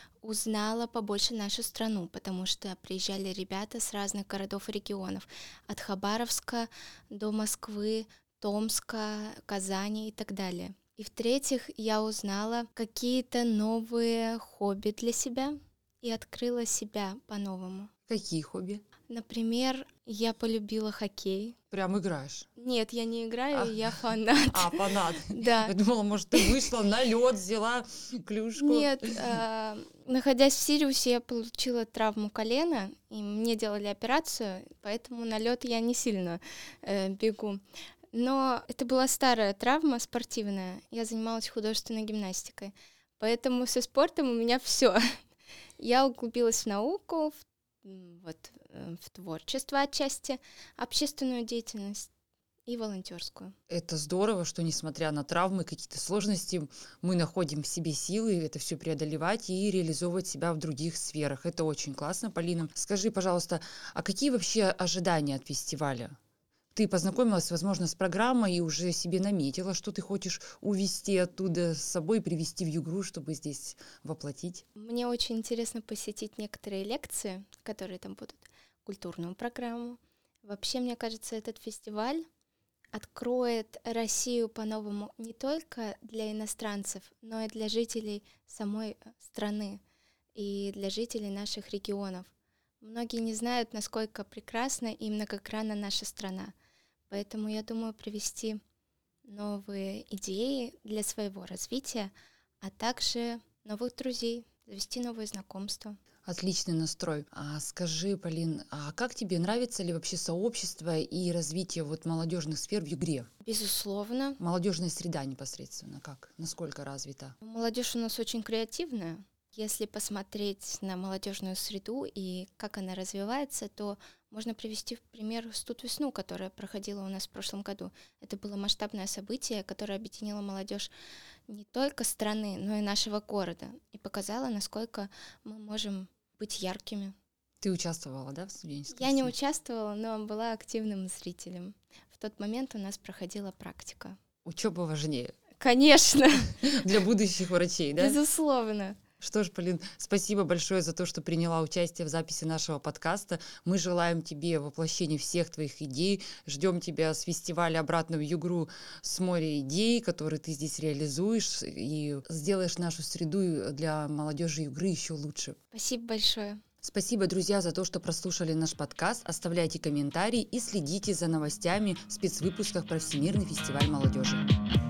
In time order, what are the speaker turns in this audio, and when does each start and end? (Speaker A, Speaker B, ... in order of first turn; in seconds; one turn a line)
Speaker A: 0.2-17.9
Speaker B: 18.1-18.8
Speaker A: 19.1-21.6
Speaker B: 21.7-22.5
Speaker A: 22.6-25.7
Speaker B: 24.5-29.2
Speaker A: 28.6-37.6
Speaker A: 38.1-45.2
Speaker A: 45.8-52.1
Speaker A: 52.7-53.5
Speaker B: 53.7-66.2
Speaker B: 66.7-74.6
Speaker A: 74.8-82.2
Speaker A: 82.9-89.8
Speaker A: 90.3-96.5
Speaker A: 97.1-98.6
Speaker A: 99.3-106.0
Speaker B: 106.2-113.3
Speaker A: 113.4-114.4
Speaker B: 114.4-117.3
Speaker A: 117.4-130.9
Speaker A: 131.5-137.1
Speaker B: 137.6-139.3
Speaker A: 138.9-144.2
Speaker B: 144.4-145.3
Speaker A: 145.6-146.8
Speaker B: 146.6-148.2
Speaker A: 148.0-149.0
Speaker B: 149.2-165.6
Speaker A: 165.7-166.6
Speaker B: 166.8-174.4